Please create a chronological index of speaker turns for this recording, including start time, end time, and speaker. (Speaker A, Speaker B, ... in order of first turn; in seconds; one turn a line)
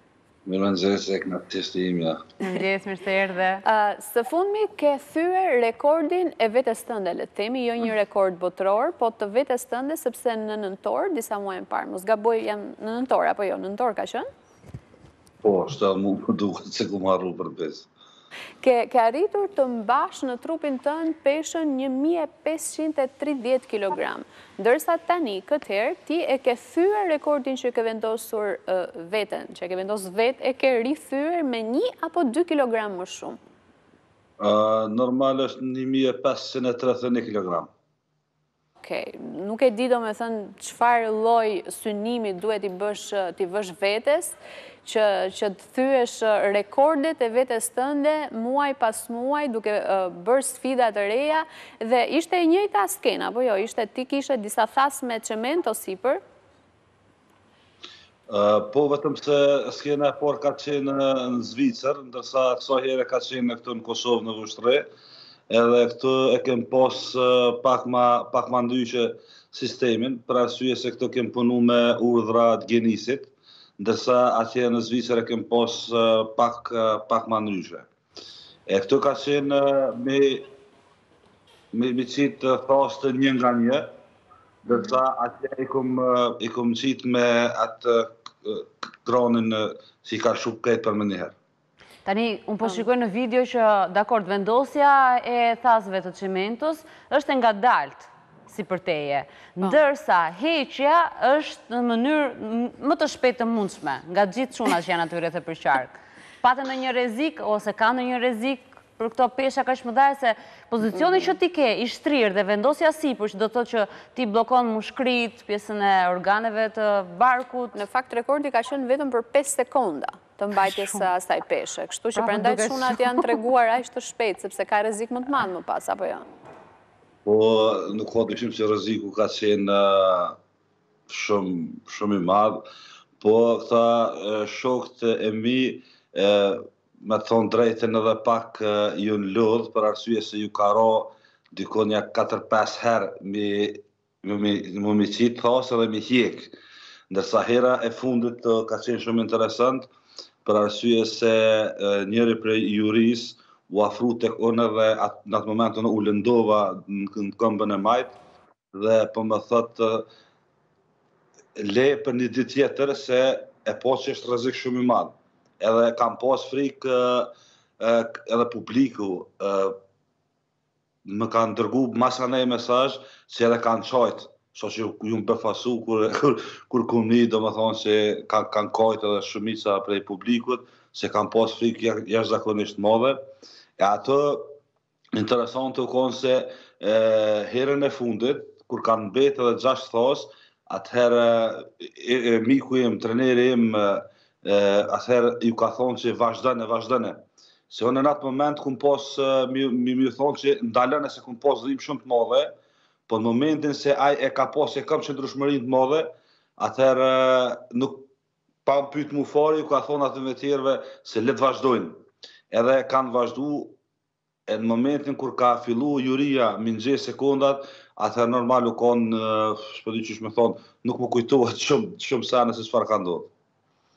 Speaker A: 0.5-2.2
Speaker B: 2.4-3.6
Speaker C: 3.6-14.3
Speaker A: 15.4-17.9
Speaker C: 18.6-33.4
Speaker A: 34.4-37.7
Speaker C: 38.8-56.2
Speaker A: 58.3-64.9
Speaker A: 65.5-77.9
Speaker A: 78.7-80.5
Speaker A: 81.7-83.8
Speaker A: 84.7-91.3
Speaker B: 92.0-117.8
Speaker C: 111.0-111.3
Speaker C: 117.7-126.2
Speaker B: 120.6-121.0
Speaker B: 122.2-123.3
Speaker A: 127.2-130.4
Speaker A: 131.1-132.6
Speaker A: 133.2-146.6
Speaker A: 147.1-149.9
Speaker A: 150.4-158.2
Speaker A: 158.7-160.1
Speaker A: 161.6-169.8
Speaker A: 171.1-183.2
Speaker A: 183.8-184.5
Speaker A: 185.1-202.5
Speaker A: 203.1-208.1
Speaker A: 208.7-212.0
Speaker A: 212.5-213.8
Speaker A: 214.5-223.3